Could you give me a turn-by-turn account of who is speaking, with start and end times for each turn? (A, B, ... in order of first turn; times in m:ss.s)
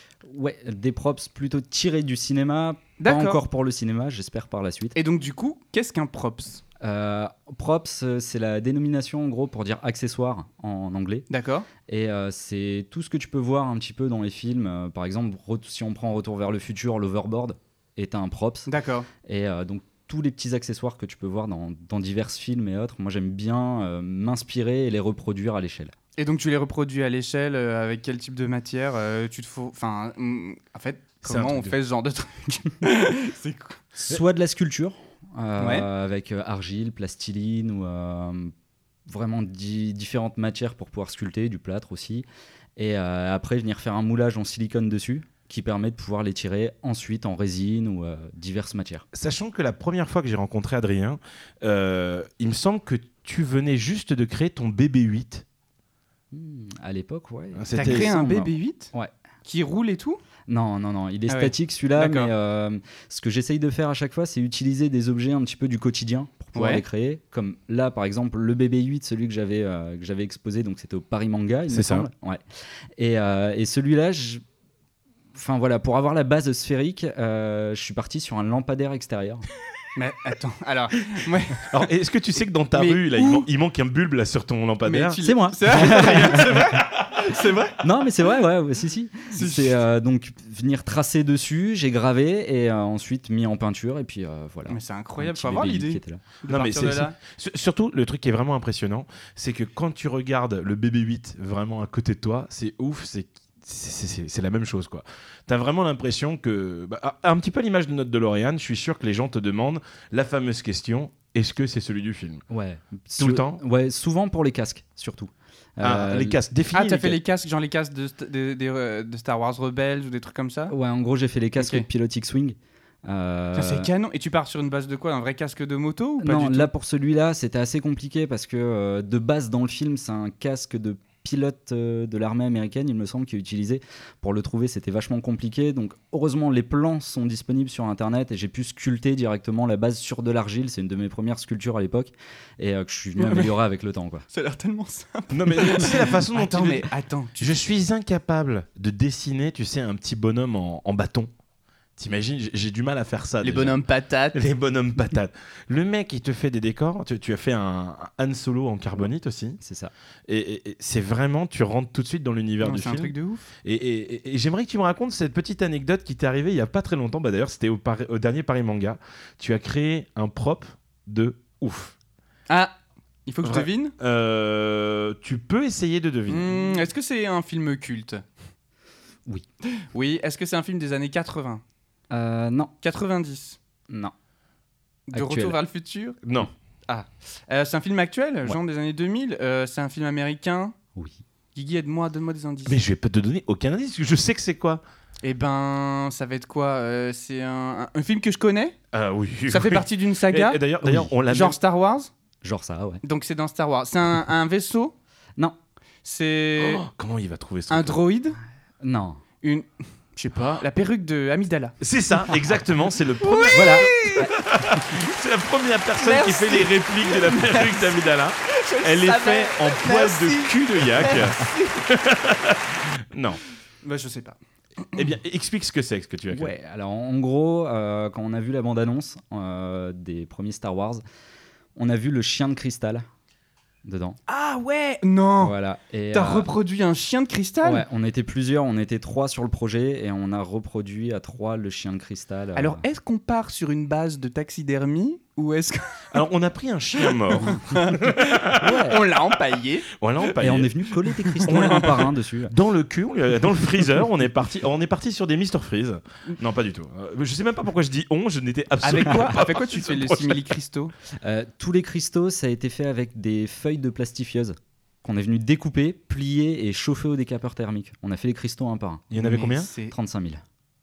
0:00.3-0:05.0 A
0:03.0-0:03.4 B
0:05.0-0:06.6 B
0:06.8-0:11.3 A
0:11.3-0:11.7 B
0:11.9-0:18.7 A
0:18.7-0:19.1 B
0:19.2-0:25.9 A
0:26.2-0:34.0 B
0:31.2-0:31.8 C
0:34.0-0:38.5 A
0:35.6-0:35.9 B
0:39.1-0:42.3 A
0:42.8-0:49.1 A
0:49.1-0:55.4 C
0:56.3-0:59.1 A
0:57.6-0:58.1 C
0:57.8-0:58.9 B
0:59.4-1:00.2 B
1:00.5-1:12.4 A
1:01.3-1:02.3 B
1:06.6-1:06.8 B
1:11.7-1:12.1 C
1:13.0-1:14.4 A
1:15.3-1:19.4 A
1:20.0-1:21.9 B
1:21.7-1:25.2 C
1:22.7-1:23.5 B
1:24.8-1:27.9 B
1:25.2-1:26.6 A
1:25.8-1:27.1 C
1:27.8-1:36.2 A
1:29.3-1:29.8 B
1:34.7-1:37.2 B
1:36.5-1:52.4 C
1:52.5-1:56.4 A
1:53.2-1:53.6 C
1:55.8-1:57.2 C
1:56.7-2:00.8 B
2:00.7-2:03.9 A
2:01.6-2:01.9 B
2:03.6-2:06.7 B
2:06.2-2:24.2 A
2:23.2-2:23.5 B
2:24.3-2:27.6 B
2:25.3-2:26.9 C
2:27.4-2:31.3 C
2:32.0-2:33.8 C
2:33.4-2:34.4 B
2:34.3-2:39.6 C
2:39.6-2:39.9 A
2:40.3-2:43.1 C
2:42.6-2:43.5 B
2:43.6-2:51.9 C
2:53.3-2:53.9 B
2:53.4-2:56.6 C
2:56.3-2:58.2 B
2:59.8-3:01.6 B
3:02.1-3:02.7 A
3:02.8-3:03.6 B
3:05.1-3:06.2 B
3:05.1-3:05.6 A
3:06.2-3:06.5 C
3:06.9-3:10.7 B
3:11.0-3:11.2 A
3:11.6-3:12.8 B
3:12.7-3:14.8 C
3:15.2-3:18.8 B
3:18.9-3:21.6 C
3:19.5-3:22.1 B
3:20.8-3:21.1 A
3:22.4-3:23.0 A
3:23.0-3:24.9 B
3:26.0-3:26.8 B
3:26.6-3:28.0 C
3:27.7-3:28.4 B
3:28.8-3:29.2 A
3:29.4-3:31.8 B
3:31.8-3:43.4 C
3:33.2-3:34.3 B
3:33.5-3:34.3 A
3:36.0-3:41.8 B
3:43.8-3:45.0 B
3:44.9-3:46.5 C
3:46.4-3:51.0 A
3:51.8-3:53.1 A
3:53.8-3:54.2 A
3:54.3-3:55.6 B
3:55.4-3:56.5 A
3:56.1-3:57.8 B
3:57.6-4:02.8 A
4:02.6-4:06.2 B
4:06.1-4:08.6 C
4:07.0-4:09.9 B
4:08.6-4:09.0 A
4:10.0-4:10.7 C
4:10.4-4:12.5 A
4:11.2-4:12.0 B
4:11.4-4:20.4 C
4:18.8-4:20.9 B
4:21.2-4:29.1 A
4:29.1-4:29.7 C
4:29.1-4:30.0 B
4:29.9-4:30.4 A